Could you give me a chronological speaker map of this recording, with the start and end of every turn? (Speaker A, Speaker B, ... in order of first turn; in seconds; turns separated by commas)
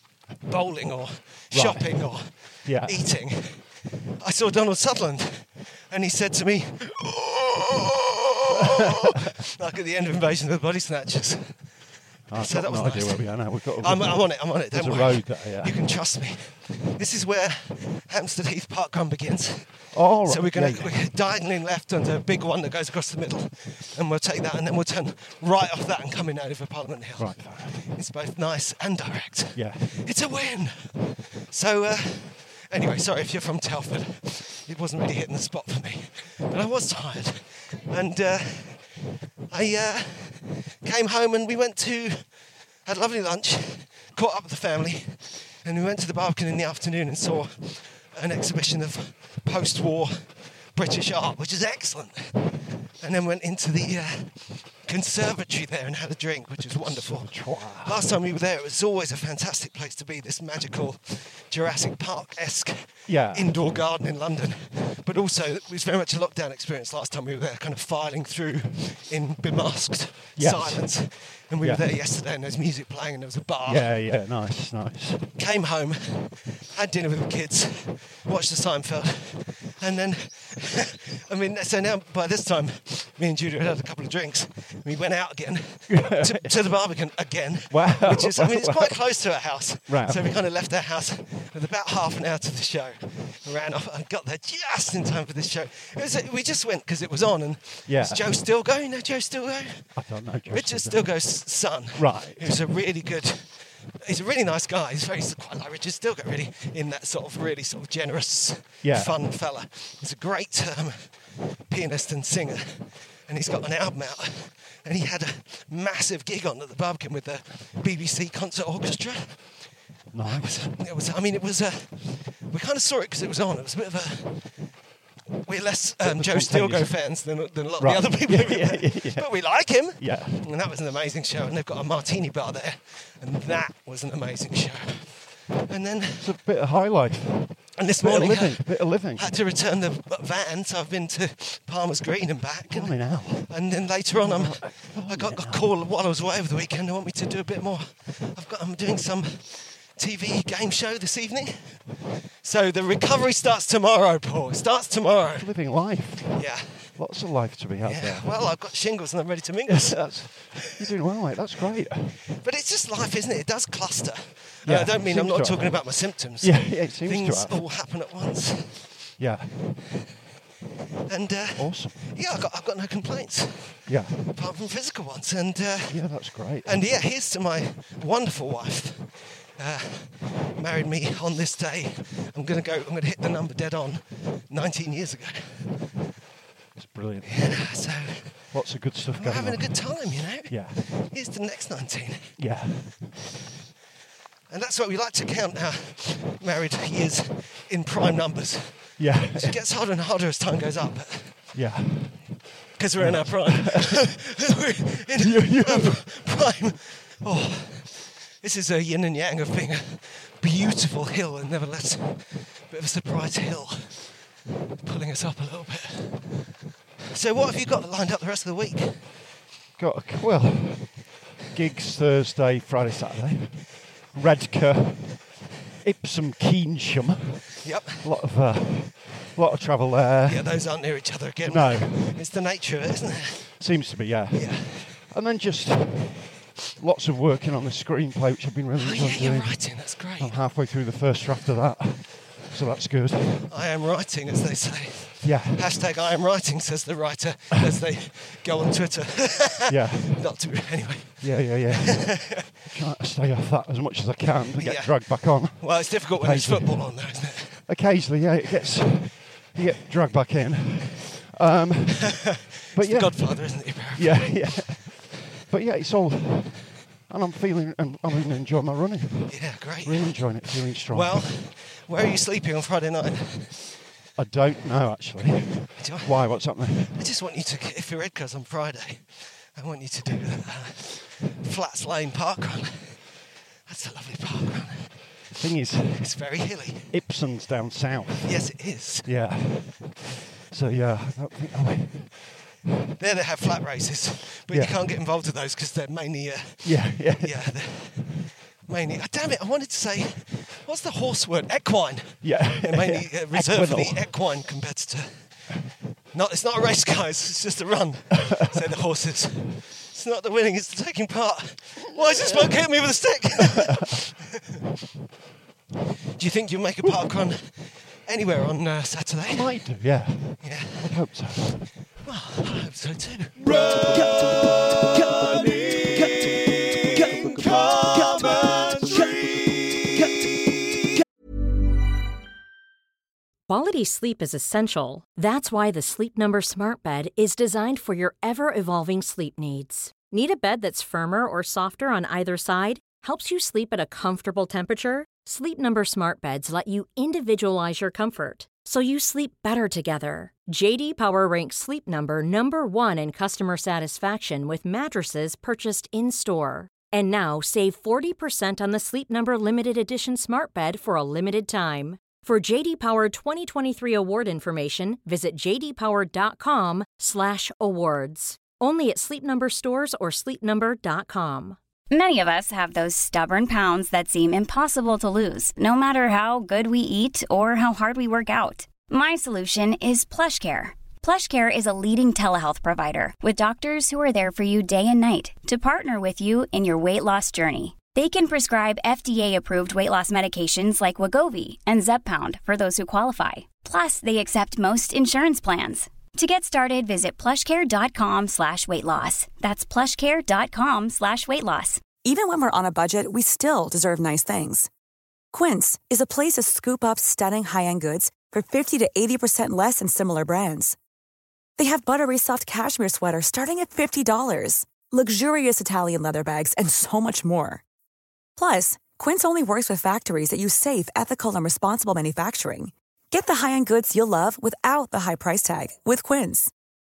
Speaker A: 0.5-11.7, Speaker B: 1.5-3.0, Speaker B: 8.5-9.2, Speaker B: 12.3-15.8, Speaker A: 12.4-42.2, Speaker B: 19.9-20.9, Speaker B: 27.2-27.8, Speaker B: 29.5-29.9, Speaker A: 42.8-52.3, Speaker A: 53.0-73.9, Speaker B: 56.6-58.1, Speaker B: 63.1-63.6, Speaker B: 70.4-71.0, Speaker B: 71.6-71.8, Speaker B: 73.7-75.3, Speaker A: 75.4-99.9, Speaker B: 85.9-86.6, Speaker B: 87.7-89.0, Speaker B: 89.9-90.4, Speaker B: 97.8-98.3, Speaker B: 99.9-101.3, Speaker A: 100.5-111.2, Speaker B: 101.9-102.6, Speaker B: 108.8-109.2, Speaker A: 111.7-119.6, Speaker B: 120.1-120.7, Speaker A: 120.2-124.6, Speaker A: 125.4-136.3, Speaker B: 126.0-127.1, Speaker B: 127.8-130.5, Speaker B: 136.2-139.3, Speaker A: 137.8-151.8, Speaker B: 142.7-145.6, Speaker A: 152.4-155.5, Speaker B: 155.4-158.4, Speaker A: 156.3-157.0, Speaker A: 157.8-160.8, Speaker B: 159.7-162.2, Speaker A: 162.4-169.0, Speaker B: 164.6-167.6, Speaker B: 169.2-169.6, Speaker A: 171.1-176.1, Speaker B: 171.6-172.4, Speaker B: 173.9-174.2, Speaker B: 175.9-177.0, Speaker A: 176.6-185.8, Speaker B: 186.8-187.6, Speaker A: 187.3-188.5, Speaker B: 188.5-190.8, Speaker A: 189.1-192.4, Speaker B: 192.4-193.2, Speaker A: 194.5-201.5, Speaker B: 199.0-199.6, Speaker B: 201.5-202.4, Speaker A: 202.8-214.0, Speaker B: 203.0-204.2, Speaker B: 205.2-206.1, Speaker A: 214.8-216.4, Speaker A: 217.1-219.1, Speaker B: 219.8-227.5, Speaker A: 227.6-228.1, Speaker B: 228.0-230.6, Speaker A: 230.2-233.5, Speaker B: 231.4-232.2, Speaker B: 233.6-243.5, Speaker A: 234.3-235.0, Speaker A: 238.8-240.4, Speaker A: 243.5-252.4, Speaker B: 245.2-245.8, Speaker B: 249.7-250.2, Speaker B: 251.2-256.9, Speaker A: 254.6-257.7, Speaker B: 257.7-271.3, Speaker A: 262.2-264.9, Speaker A: 269.3-273.6, Speaker B: 274.1-276.9, Speaker A: 275.8-283.1, Speaker A: 283.6-285.1, Speaker B: 285.3-286.1, Speaker A: 286.0-286.9, Speaker B: 286.9-288.4, Speaker A: 288.2-289.1, Speaker B: 289.0-292.5, Speaker A: 293.0-305.4, Speaker B: 294.5-294.8, Speaker B: 296.6-297.5, Speaker B: 302.2-304.1, Speaker A: 306.1-314.6, Speaker B: 312.0-312.4, Speaker A: 316.2-319.7, Speaker B: 319.3-321.7, Speaker A: 320.4-321.1, Speaker A: 322.0-330.0, Speaker C: 333.5-371.6, Speaker D: 371.9-401.8, Speaker E: 402.0-404.7, Speaker E: 405.3-410.8, Speaker E: 411.6-417.6, Speaker E: 418.4-426.5